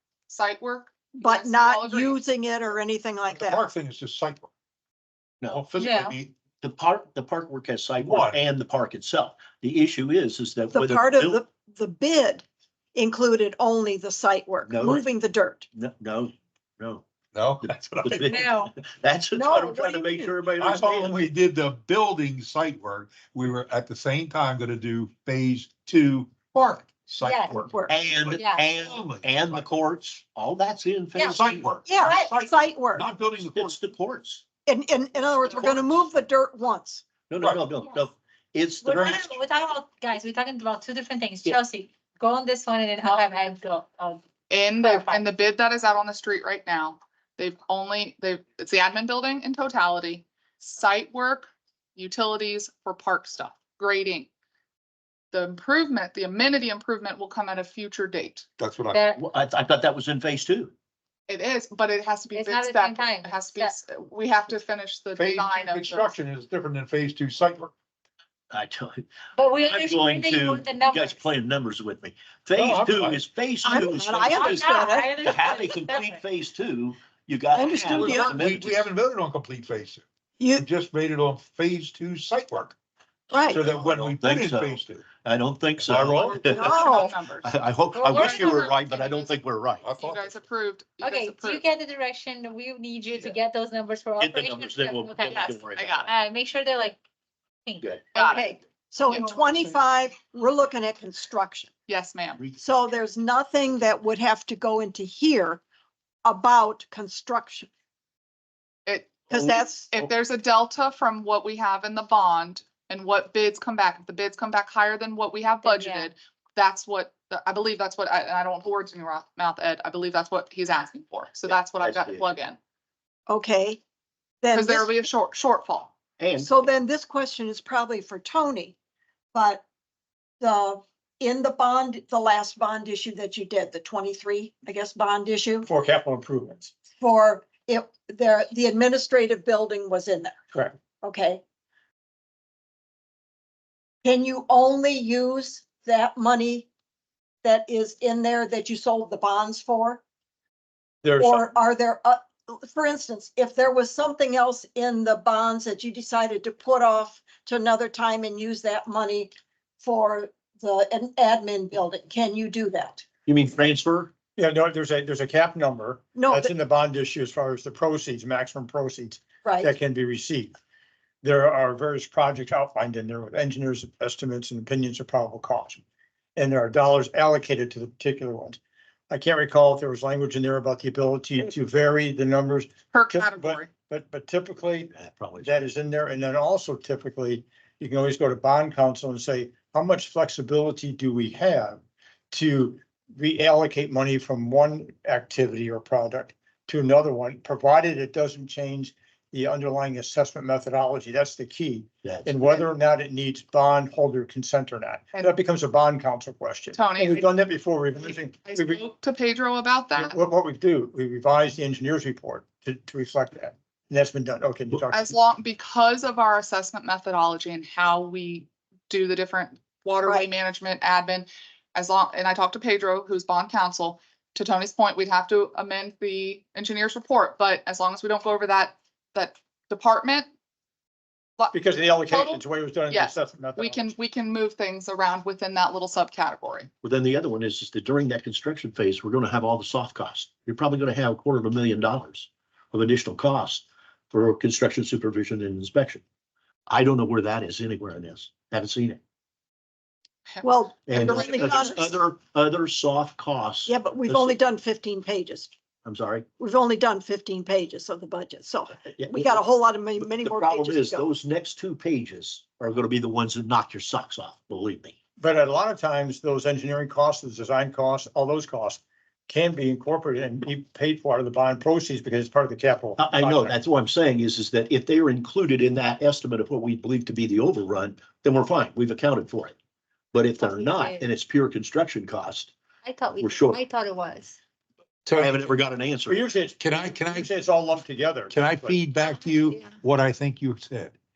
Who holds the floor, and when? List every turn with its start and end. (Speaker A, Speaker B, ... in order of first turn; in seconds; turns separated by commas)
Speaker A: 0.3-2.2, Speaker B: 1.2-3.7, Speaker C: 3.3-4.5, Speaker D: 5.4-5.7, Speaker C: 5.5-6.3, Speaker E: 5.8-6.2, Speaker D: 6.6-11.4, Speaker C: 8.0-8.4, Speaker B: 10.7-15.7, Speaker D: 14.7-15.1, Speaker D: 15.8-17.1, Speaker C: 17.3-18.4, Speaker D: 17.6-21.2, Speaker E: 18.3-18.7, Speaker B: 19.3-20.4, Speaker C: 20.6-29.7, Speaker E: 27.2-27.7, Speaker D: 27.9-31.7, Speaker E: 28.4-28.7, Speaker E: 31.1-31.5, Speaker C: 31.2-33.8, Speaker B: 31.9-33.1, Speaker D: 33.4-34.4, Speaker B: 34.7-37.0, Speaker D: 35.5-35.9, Speaker D: 37.3-39.4, Speaker E: 38.8-44.2, Speaker A: 44.5-54.3, Speaker E: 44.8-45.2, Speaker A: 55.3-58.5, Speaker C: 58.6-59.0, Speaker E: 58.9-59.2, Speaker D: 59.1-60.7, Speaker A: 61.3-66.1, Speaker E: 62.3-63.8, Speaker C: 65.2-67.7, Speaker D: 68.5-69.0, Speaker E: 69.4-71.2, Speaker D: 69.6-74.7, Speaker C: 72.5-73.3, Speaker B: 73.6-75.6, Speaker E: 74.3-76.2, Speaker D: 75.2-78.9, Speaker B: 77.5-78.4, Speaker C: 77.8-82.8, Speaker B: 80.4-80.7, Speaker B: 83.3-83.6, Speaker C: 83.4-85.1, Speaker D: 83.7-89.9, Speaker C: 85.8-86.5, Speaker A: 86.2-87.5, Speaker B: 86.4-87.1, Speaker E: 87.9-88.7, Speaker A: 88.1-89.4, Speaker C: 89.8-90.4, Speaker A: 90.0-91.6, Speaker E: 91.0-95.5, Speaker D: 94.2-96.1, Speaker A: 95.3-96.1, Speaker E: 96.0-97.0, Speaker E: 97.7-97.9, Speaker A: 98.1-98.4, Speaker B: 98.2-101.7, Speaker A: 99.1-99.5, Speaker A: 101.9-102.4, Speaker B: 102.6-105.6, Speaker B: 106.2-107.7, Speaker A: 108.9-122.6, Speaker B: 109.3-109.9, Speaker E: 115.6-116.1, Speaker D: 121.5-122.3, Speaker B: 123.3-123.8, Speaker B: 124.4-124.9, Speaker A: 124.5-125.9, Speaker D: 126.2-126.5, Speaker B: 126.4-128.8, Speaker B: 129.3-129.6, Speaker B: 130.4-135.7, Speaker F: 135.7-136.7, Speaker B: 137.0-140.4, Speaker B: 141.0-141.4, Speaker B: 144.0-146.7, Speaker B: 147.4-150.0, Speaker B: 151.2-163.1, Speaker D: 163.3-164.1, Speaker F: 164.4-170.6, Speaker B: 166.2-166.5, Speaker B: 169.4-169.7, Speaker F: 171.2-175.8, Speaker F: 176.4-178.6, Speaker F: 179.1-184.9, Speaker A: 182.9-183.7, Speaker D: 184.9-185.7, Speaker F: 185.4-191.8, Speaker F: 192.3-208.8, Speaker D: 202.0-202.7, Speaker A: 206.7-207.3, Speaker A: 208.0-210.2, Speaker F: 209.9-215.1, Speaker A: 214.9-230.3, Speaker F: 231.5-233.8, Speaker A: 232.1-236.7, Speaker D: 236.8-246.0, Speaker D: 246.7-249.0, Speaker A: 250.3-251.9, Speaker B: 250.4-251.9, Speaker D: 250.9-254.3, Speaker B: 253.7-255.5, Speaker D: 255.8-256.3, Speaker B: 256.4-261.1, Speaker D: 259.0-259.4, Speaker D: 260.1-264.9, Speaker F: 265.2-273.6, Speaker D: 273.0-279.6, Speaker D: 280.1-282.5, Speaker E: 280.4-281.1, Speaker E: 282.8-284.4, Speaker D: 283.2-283.6, Speaker C: 285.1-285.6, Speaker D: 285.2-286.2, Speaker F: 286.1-286.6, Speaker C: 286.6-287.3, Speaker F: 287.2-288.8, Speaker C: 288.3-290.9, Speaker E: 289.1-289.7